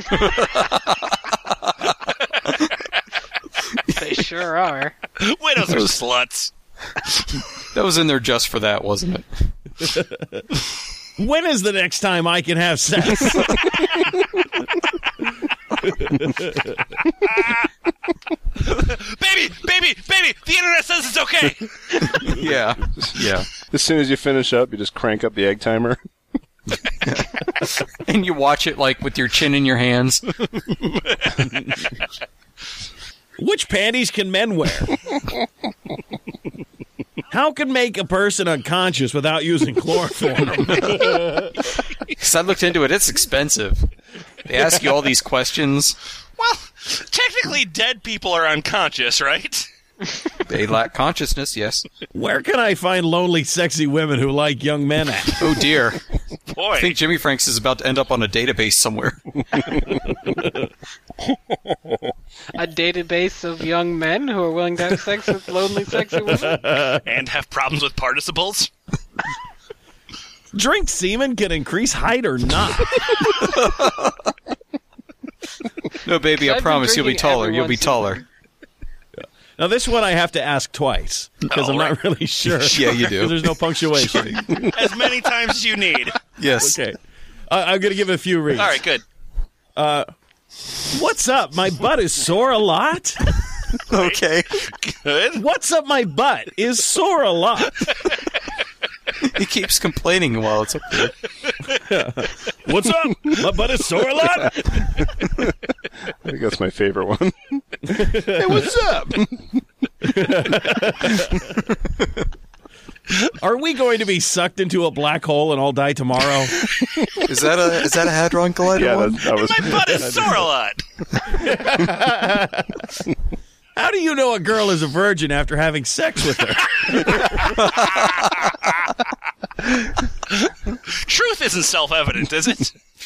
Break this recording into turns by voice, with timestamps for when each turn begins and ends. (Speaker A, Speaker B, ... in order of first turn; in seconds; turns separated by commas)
Speaker A: 0.1-1.1, Speaker B: 3.9-5.0, Speaker C: 5.2-6.5, Speaker A: 7.6-9.4, Speaker D: 9.8-10.4, Speaker D: 11.2-13.7, Speaker D: 15.9-16.8, Speaker C: 17.2-17.7, Speaker C: 18.6-22.4, Speaker A: 22.1-23.5, Speaker E: 22.9-26.0, Speaker A: 27.0-30.4, Speaker C: 30.7-31.6, Speaker D: 33.4-34.9, Speaker D: 37.3-41.5, Speaker A: 42.1-43.9, Speaker A: 44.4-46.0, Speaker C: 46.4-49.7, Speaker A: 50.5-51.8, Speaker D: 52.1-55.6, Speaker A: 55.4-56.0, Speaker C: 56.5-57.0, Speaker A: 56.8-60.0, Speaker B: 62.5-66.7, Speaker D: 66.5-67.0, Speaker C: 66.9-68.7, Speaker D: 70.5-73.2, Speaker A: 73.3-74.3, Speaker A: 76.0-78.2, Speaker B: 76.3-78.2, Speaker D: 79.6-84.7, Speaker C: 81.5-81.9, Speaker A: 82.6-84.6, Speaker C: 84.7-86.2, Speaker A: 86.4-86.8, Speaker D: 86.6-87.0, Speaker D: 87.5-88.8, Speaker C: 88.5-89.0, Speaker D: 89.8-90.1, Speaker D: 90.8-93.2, Speaker A: 93.9-94.7, Speaker C: 93.9-95.4, Speaker D: 95.3-97.8, Speaker A: 99.2-101.1, Speaker D: 101.8-104.9, Speaker E: 106.2-109.5, Speaker D: 108.0-108.6, Speaker D: 110.0-111.5, Speaker D: 113.4-116.6, Speaker A: 117.2-119.3, Speaker E: 118.7-120.3, Speaker C: 119.4-120.8, Speaker D: 121.3-122.8, Speaker D: 123.8-127.6, Speaker A: 127.7-128.2, Speaker C: 130.3-132.7